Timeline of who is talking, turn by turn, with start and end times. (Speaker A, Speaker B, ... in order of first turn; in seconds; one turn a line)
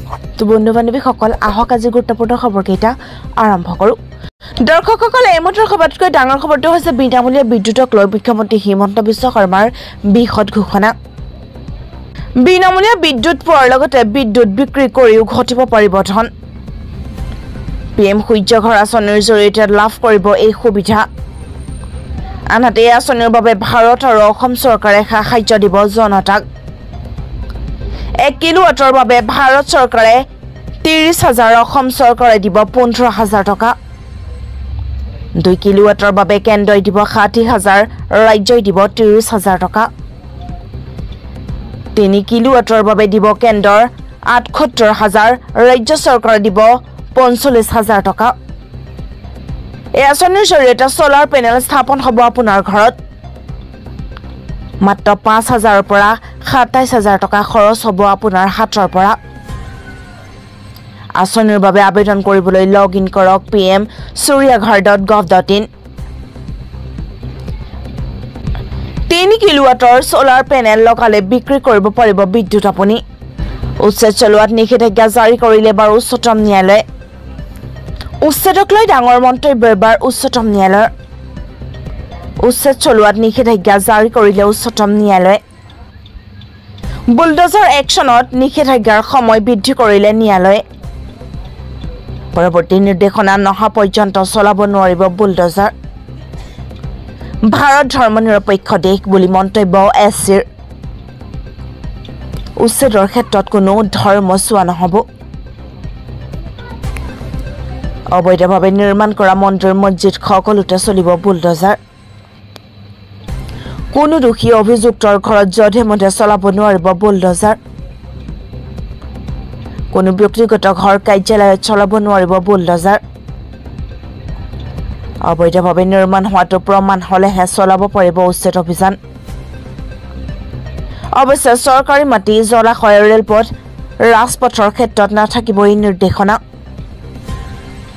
Speaker A: 0.4-4.0
Speaker A: 4.6-10.9
Speaker A: 12.4-16.3
Speaker A: 17.9-21.1
Speaker A: 22.5-26.4
Speaker A: 28.2-30.2
Speaker A: 30.8-33.8
Speaker A: 35.4-39.9
Speaker A: 41.9-48.3
Speaker A: 50.0-53.0
Speaker A: 54.8-59.1
Speaker A: 61.2-65.7
Speaker A: 69.1-73.0
Speaker A: 73.8-76.8
Speaker A: 78.2-80.9
Speaker A: 82.4-85.4
Speaker A: 87.1-90.6
Speaker A: 92.3-95.7
Speaker A: 97.5-100.4
Speaker A: 102.6-105.0
Speaker A: 108.1-111.8
Speaker A: 113.9-117.6
Speaker A: 119.9-123.0
Speaker A: 125.2-129.0
Speaker A: 131.1-136.4